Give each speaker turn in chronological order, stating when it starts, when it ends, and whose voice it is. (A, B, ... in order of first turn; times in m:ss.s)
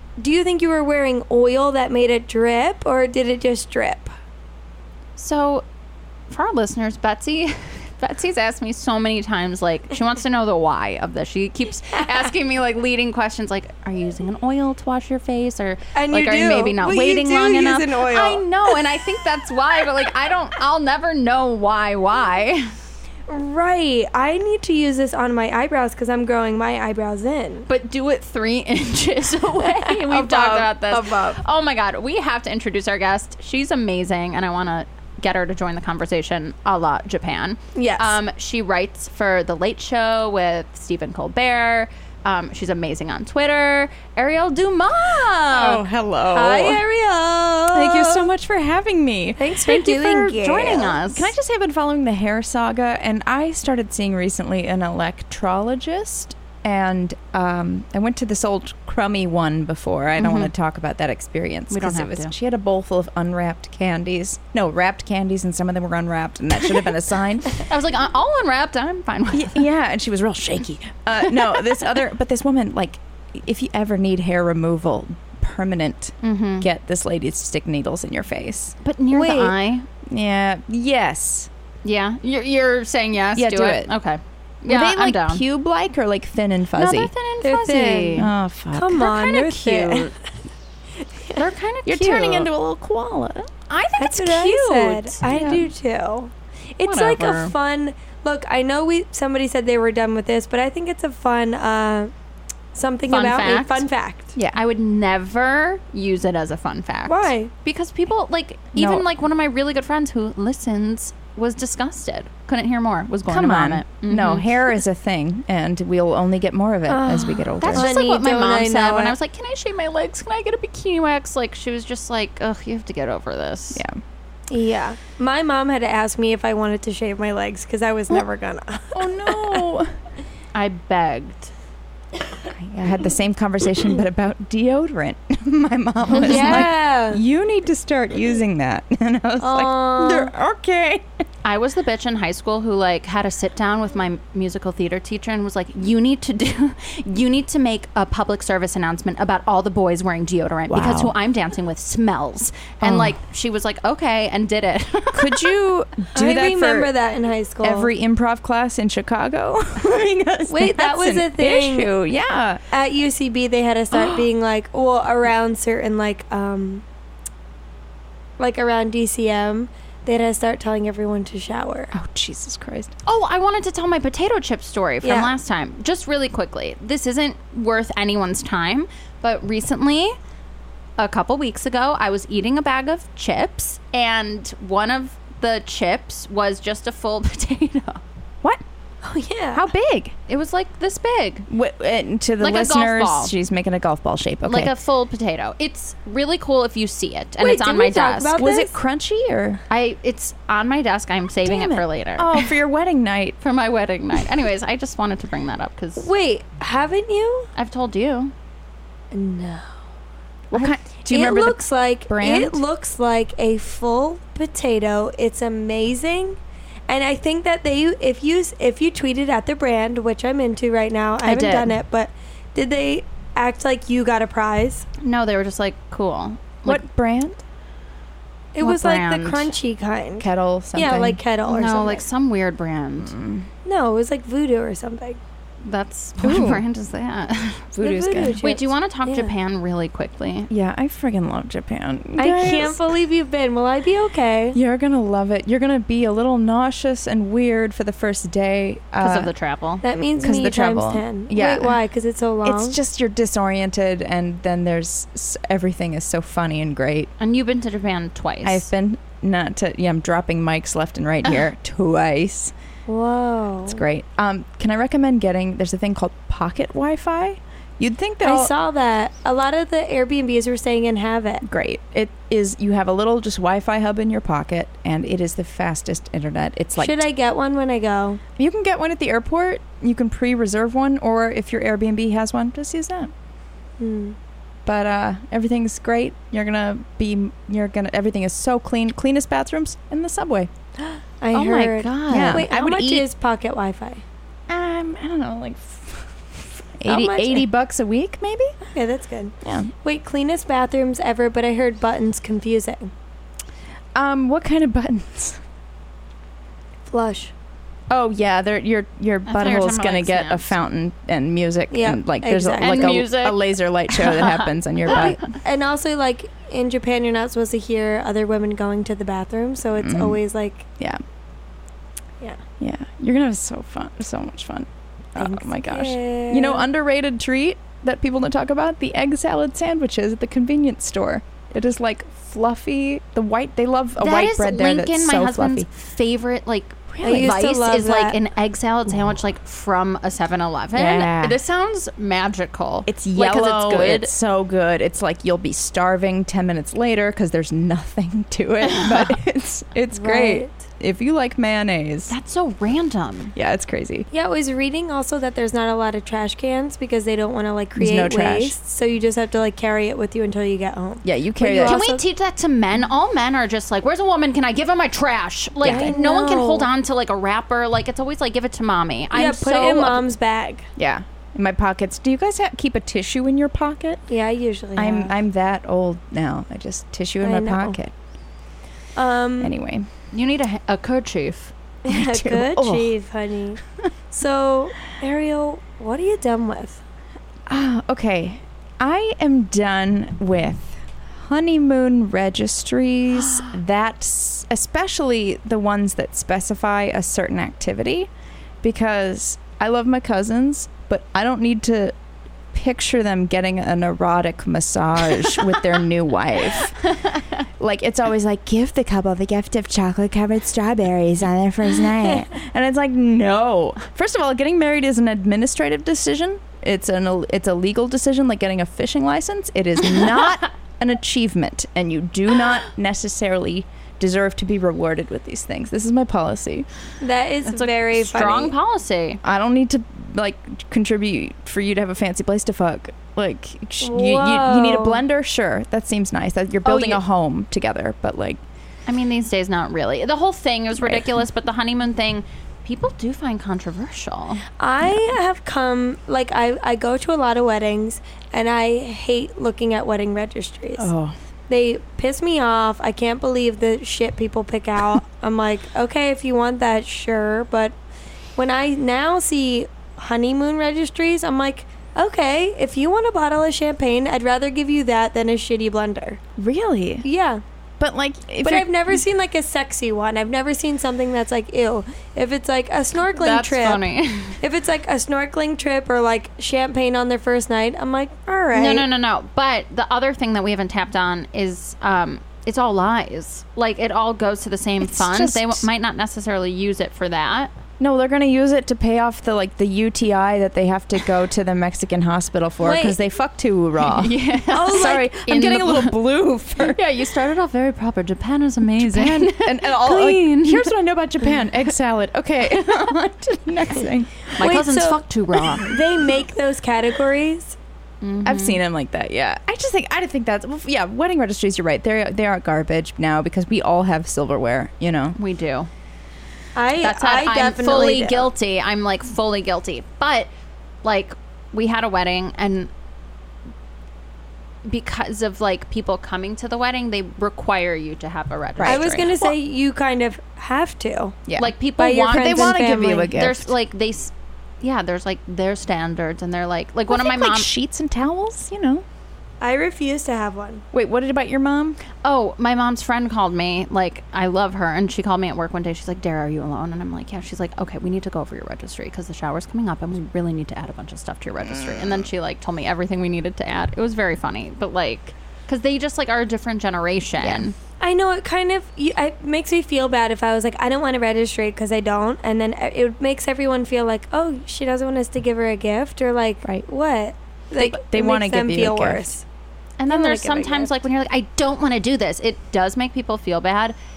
0:00.2-0:04.1 A
0:05.2-0:05.6 B
0:06.3-0:22.7 B
0:15.9-0:18.8 A
0:23.3-0:27.7 A
0:27.7-0:45.8 B
0:30.1-0:31.4 C
0:37.7-0:38.2 A
0:45.5-0:46.8 C
0:46.3-0:48.3 A
0:47.7-0:50.1 C
0:49.4-0:51.0 A
0:50.0-0:51.3 B
0:51.0-1:07.6 C
1:00.2-1:00.5 B
1:01.7-1:02.3 B
1:07.6-1:09.6 B
1:09.3-1:18.8 C
1:11.2-1:12.0 B
1:16.2-1:16.7 B
1:18.8-1:19.8 B
1:19.1-1:19.5 A
1:20.0-1:21.5 C
1:21.8-1:25.4 B
1:23.4-1:23.9 C
1:24.7-1:27.1 C
1:26.8-1:28.3 B
1:27.4-1:30.2 A
1:28.1-1:30.0 C
1:31.3-1:32.5 B
1:31.8-1:33.5 C
1:33.7-1:35.2 B
1:34.0-1:42.1 A
1:35.3-1:35.7 C
1:36.8-1:37.5 B
1:42.7-1:44.3 A
1:43.1-1:43.8 B
1:44.5-1:54.8 B
1:47.1-1:47.5 A
1:48.8-1:49.0 C
1:53.3-1:57.9 C
1:56.9-1:59.2 A
1:57.6-2:03.8 B
2:03.7-2:04.0 C
2:04.5-2:09.7 A
2:08.9-2:09.9 C
2:10.5-2:11.5 B
2:12.5-2:21.1 C
2:16.1-2:16.7 B
2:16.2-2:17.2 A
2:19.4-2:20.3 A
2:21.4-2:35.5 B
2:30.7-2:31.1 C
2:32.8-2:33.2 C
2:35.1-2:36.9 C
2:36.1-2:37.9 A
2:37.6-2:42.6 C
2:40.5-2:41.9 A
2:42.7-2:46.8 A
2:43.9-2:44.2 C
2:48.4-2:51.9 A
2:51.9-2:52.9 C
2:53.0-3:00.1 B
2:55.0-2:55.3 A
3:01.0-3:08.0 B
3:09.0-3:09.7 A
3:09.5-3:10.2 C
3:10.3-3:11.5 B
3:11.5-3:14.7 C
3:12.4-3:13.3 B
3:14.4-3:18.3 B
3:17.4-3:18.7 A
3:18.4-3:19.6 C
3:19.7-3:22.5 B
3:21.4-3:23.4 C
3:23.4-3:26.1 B
3:26.0-3:27.5 A
3:27.6-3:28.3 B
3:29.1-3:29.7 A
3:30.5-3:32.6 C
3:30.5-3:44.8 A
3:41.2-3:41.7 B
3:45.0-3:46.8 B
3:46.6-3:47.4 C
3:48.5-3:52.0 A
3:48.6-3:49.5 B
3:50.2-3:51.2 C
3:51.5-3:53.1 B
3:53.0-3:53.5 C
3:53.6-3:55.2 A
3:55.6-3:57.7 B
3:56.2-3:56.6 C
3:57.7-3:58.4 C
3:57.8-3:59.3 A
3:58.4-4:00.5 B
4:00.5-4:02.9 C
4:02.2-4:04.6 A
4:04.5-4:09.3 C
4:09.0-4:09.8 B
4:09.8-4:12.8 A
4:10.2-4:11.8 C
4:12.4-4:17.1 C
4:17.2-4:18.7 B
4:18.4-4:22.5 C
4:22.9-4:23.8 A
4:23.7-4:28.5 C
4:28.2-4:31.4 A
4:31.4-4:37.0 C
4:36.8-4:38.2 A
4:38.4-4:43.1 C
4:43.8-4:44.2 A
4:44.6-4:50.5 C
4:50.8-4:54.0 A
4:51.3-4:52.4 B
4:52.0-4:53.0 C
4:54.5-4:58.5 C
4:56.8-4:57.4 A
4:58.7-5:02.9 A
4:59.4-4:59.7 C
5:03.9-5:05.4 C
5:06.9-5:07.3 A
5:07.9-5:15.2 C
5:09.3-5:10.5 B
5:11.7-5:13.0 A
5:12.6-5:15.2 B
5:14.9-5:20.6 A
5:19.8-5:20.2 C
5:22.6-5:35.7 C
5:25.2-5:26.7 A
5:34.0-5:44.1 B
5:36.9-5:37.4 C
5:37.0-5:38.2 A
5:40.7-5:41.4 C
5:42.8-5:52.1 C
5:49.9-5:50.5 A
5:52.1-5:53.3 B
5:53.3-5:54.1 C
5:54.1-6:02.0 A
5:57.8-5:58.5 C
6:01.0-6:01.8 C
6:01.6-6:10.0 B
6:05.6-6:05.9 C
6:05.6-6:06.7 A
6:09.1-6:10.7 A
6:10.8-6:14.0 C
6:14.1-6:15.2 A
6:14.8-6:17.9 C
6:17.2-6:17.8 A
6:19.0-6:19.5 A
6:19.4-6:19.9 C
6:20.1-6:21.5 B
6:21.8-6:23.6 A
6:21.9-6:22.9 C
6:24.1-6:26.8 A
6:27.5-6:38.1 C
6:38.6-6:41.9 C
6:42.5-6:46.8 C
6:47.6-7:06.6 C
7:07.0-7:08.5 A
7:07.5-7:09.2 B
7:09.2-7:18.4 C
7:13.8-7:15.0 A
7:16.6-7:17.0 B
7:18.9-7:24.4 B
7:20.8-7:21.1 C
7:24.6-7:30.9 A
7:24.8-7:25.1 C
7:30.8-7:31.2 C
7:31.5-7:37.7 A
7:38.4-7:46.2 A
7:46.4-7:47.0 C
7:47.0-7:47.4 A
7:47.8-7:49.0 C
7:48.4-7:53.9 A
7:53.1-7:54.4 B
7:54.4-7:58.9 A
7:58.5-8:07.5 B
8:04.8-8:05.6 C
8:07.8-8:16.8 C
8:12.6-8:13.0 A
8:13.8-8:16.0 B
8:14.5-8:15.0 A
8:16.6-8:20.7 B
8:18.8-8:24.5 C
8:24.4-8:25.7 B
8:24.4-8:25.0 A
8:25.6-8:27.6 A
8:28.0-8:28.6 B
8:28.2-8:35.2 C
8:35.2-8:35.7 B
8:36.5-8:38.3 A
8:36.8-8:40.3 B
8:40.8-8:42.7 B
8:44.6-8:49.2 B
8:48.6-8:49.3 C
8:48.6-8:51.2 A
8:51.3-8:53.5 C
8:51.4-8:57.5 B
8:51.8-8:53.2 A
8:56.9-8:58.8 C
8:59.4-9:00.6 A
9:00.7-9:01.8 C
9:02.0-9:17.5 B
9:11.4-9:12.1 C
9:17.2-9:17.4 C
9:17.8-9:29.2 A
9:27.5-9:29.1 C
9:29.8-9:33.8 B
9:29.9-9:30.7 A